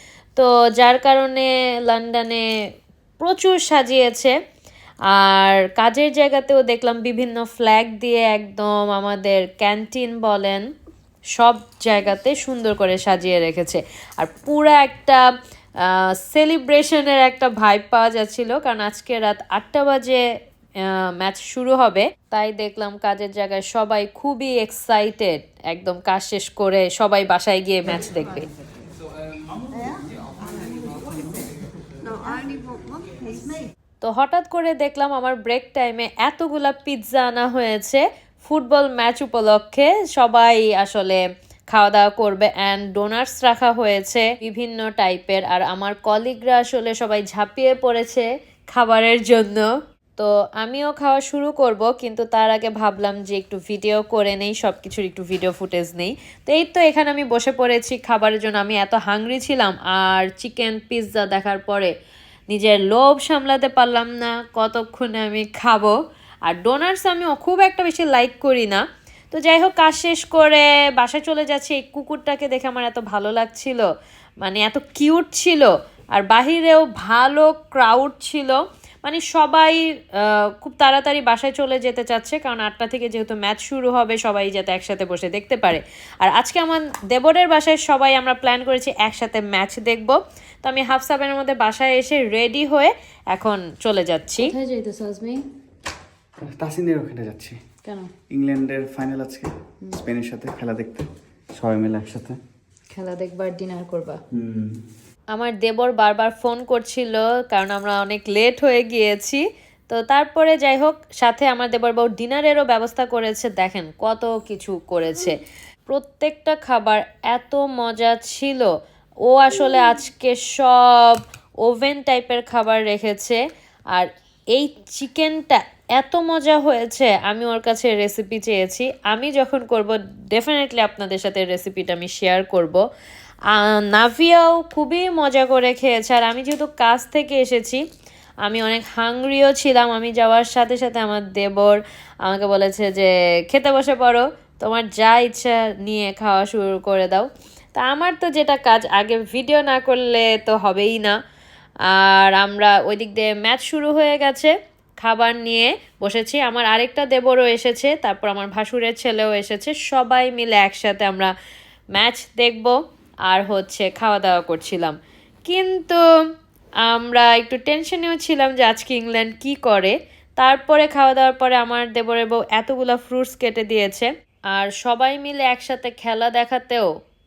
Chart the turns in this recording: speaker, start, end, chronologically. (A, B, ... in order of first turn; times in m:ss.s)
0:00.4-0:02.4 A
0:03.2-0:04.4 A
0:05.1-0:10.6 A
0:11.4-0:15.3 A
0:15.8-0:20.2 A
0:20.8-0:28.5 A
0:34.0-0:41.2 A
0:41.7-1:01.9 A
1:02.5-1:13.9 A
1:14.4-1:34.5 A
1:34.4-1:35.4 B
1:36.4-1:37.6 C
1:37.8-1:38.1 B
1:38.3-1:42.4 C
1:42.9-1:44.2 B
1:44.3-1:44.8 C
1:45.3-1:58.7 A
1:59.3-2:03.4 A
2:03.9-2:12.8 A
2:13.5-2:17.8 A
2:18.4-2:31.2 A
2:31.9-2:41.3 A
2:41.9-2:42.8 A
2:43.3-2:45.0 A
2:45.5-2:46.0 A
2:46.8-2:56.9 A